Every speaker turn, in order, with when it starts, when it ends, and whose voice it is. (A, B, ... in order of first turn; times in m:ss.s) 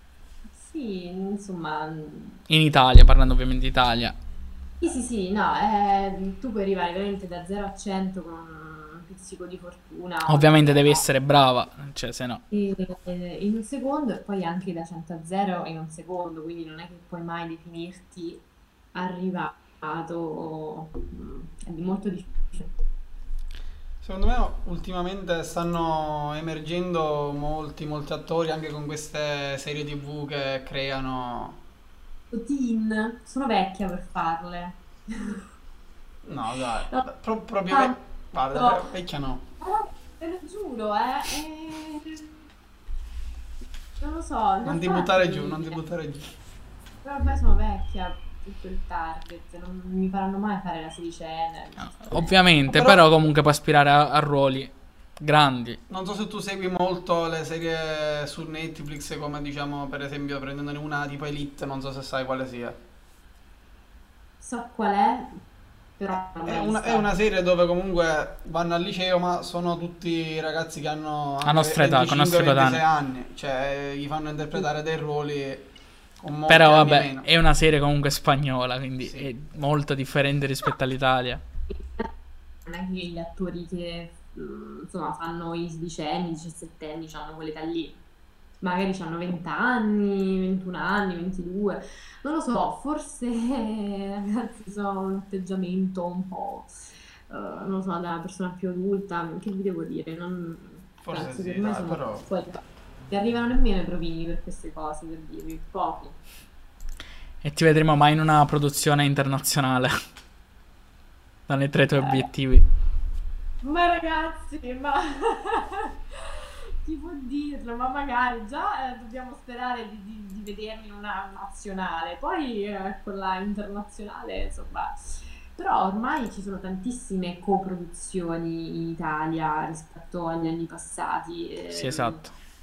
0:00.5-0:02.4 A
0:02.5-0:04.2 B
0:04.8-0:11.0 A
0:10.3-0:12.4 B
0:12.5-0:22.7 A
0:24.0-0:31.6 C
0:32.3-0:35.4 A
0:36.2-0:39.4 C
0:37.7-0:38.0 A
0:38.5-0:38.8 A
0:39.6-0:42.4 A
0:44.0-0:45.8 A
0:44.6-0:46.4 C
0:47.0-0:52.4 A
0:52.0-0:55.8 B
0:52.7-0:53.0 C
0:55.9-1:02.8 C
1:04.4-1:05.4 A
1:06.0-1:07.1 A
1:06.4-1:15.7 C
1:11.4-1:12.8 B
1:16.2-1:17.3 C
1:16.5-1:21.4 B
1:19.0-1:19.3 C
1:21.7-1:22.1 A
1:22.6-1:28.0 A
1:28.6-1:36.7 A
1:37.3-1:46.2 A
1:41.0-1:42.3 C
1:47.4-1:49.9 B
1:51.5-1:52.6 B
1:51.9-1:52.3 A
1:53.6-2:12.2 A
2:11.7-2:12.3 B